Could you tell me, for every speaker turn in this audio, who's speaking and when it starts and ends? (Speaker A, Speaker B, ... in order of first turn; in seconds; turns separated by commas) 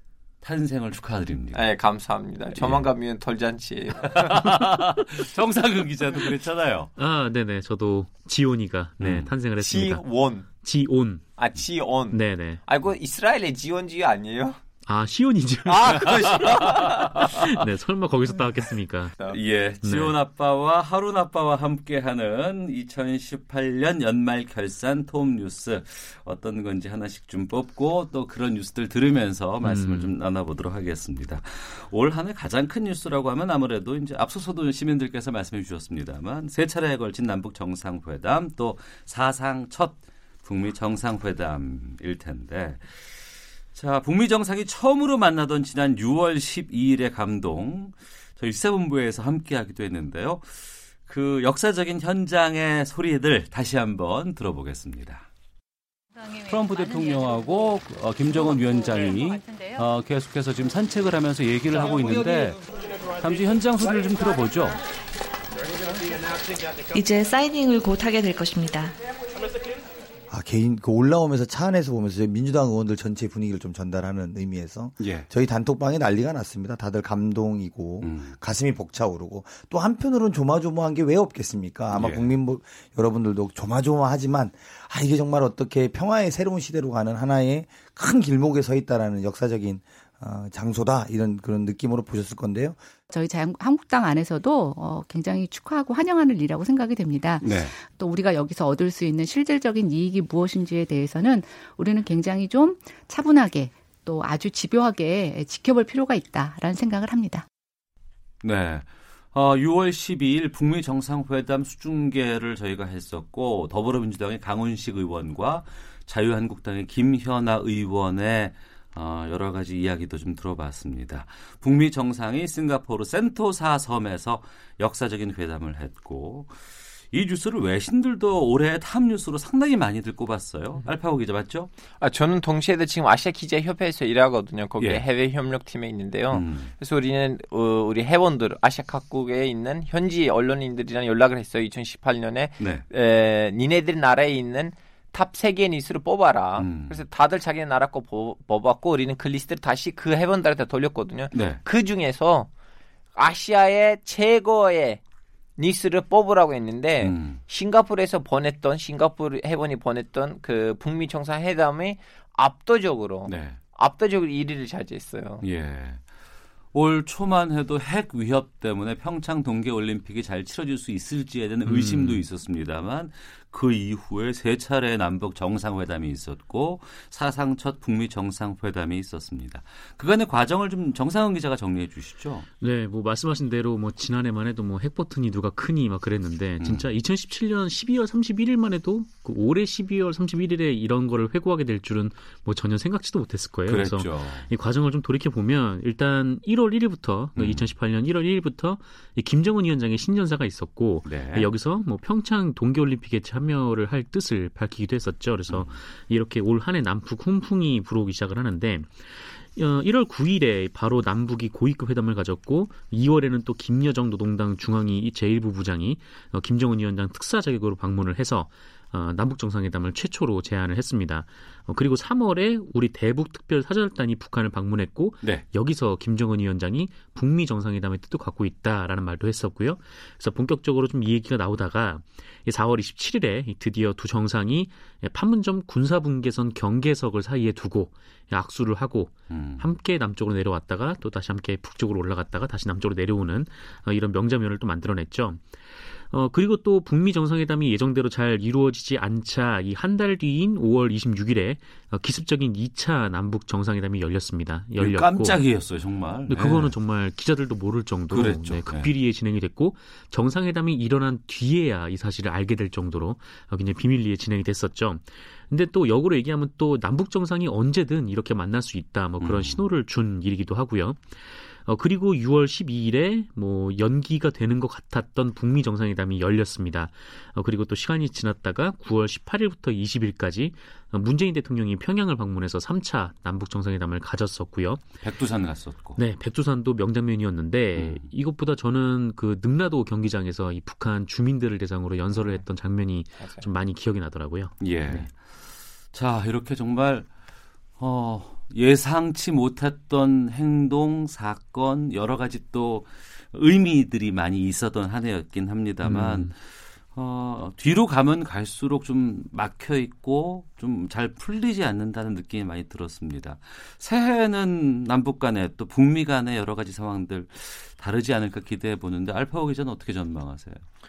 Speaker A: 0.4-1.7, Speaker B: 1.5-4.6, Speaker A: 2.5-2.9, Speaker A: 4.0-6.9, Speaker C: 7.0-10.0, Speaker A: 9.0-9.3, Speaker B: 9.6-10.5, Speaker C: 10.6-11.3, Speaker B: 11.4-14.6, Speaker C: 12.1-12.6, Speaker C: 14.8-16.8, Speaker B: 15.7-17.3, Speaker A: 16.1-17.0, Speaker C: 17.3-19.1, Speaker A: 19.3-55.2, Speaker C: 19.8-20.1, Speaker C: 29.6-30.1, Speaker A: 56.3-64.8, Speaker D: 66.9-69.0, Speaker E: 70.3-92.8, Speaker A: 75.0-75.3, Speaker A: 78.0-78.3, Speaker A: 81.9-82.3, Speaker F: 93.1-107.4, Speaker A: 97.4-97.7, Speaker A: 108.4-131.7, Speaker B: 132.0-152.5, Speaker A: 134.8-135.0, Speaker A: 136.3-136.7, Speaker A: 146.6-147.0, Speaker A: 151.3-151.6, Speaker B: 153.1-155.0, Speaker B: 155.6-165.4, Speaker A: 157.0-157.4, Speaker A: 163.3-163.6, Speaker A: 165.4-166.0, Speaker A: 166.7-182.5, Speaker C: 171.7-172.2, Speaker C: 182.6-255.4, Speaker A: 193.7-194.5, Speaker A: 197.3-197.7, Speaker A: 201.1-201.5, Speaker A: 205.5-205.8, Speaker A: 239.3-239.7, Speaker A: 254.8-256.7, Speaker C: 256.3-284.8, Speaker A: 258.1-258.9, Speaker A: 269.2-269.6, Speaker A: 285.0-286.0, Speaker C: 285.9-295.1, Speaker A: 287.8-288.1, Speaker B: 293.2-293.4, Speaker A: 294.6-297.1, Speaker A: 297.8-320.6, Speaker C: 305.8-306.3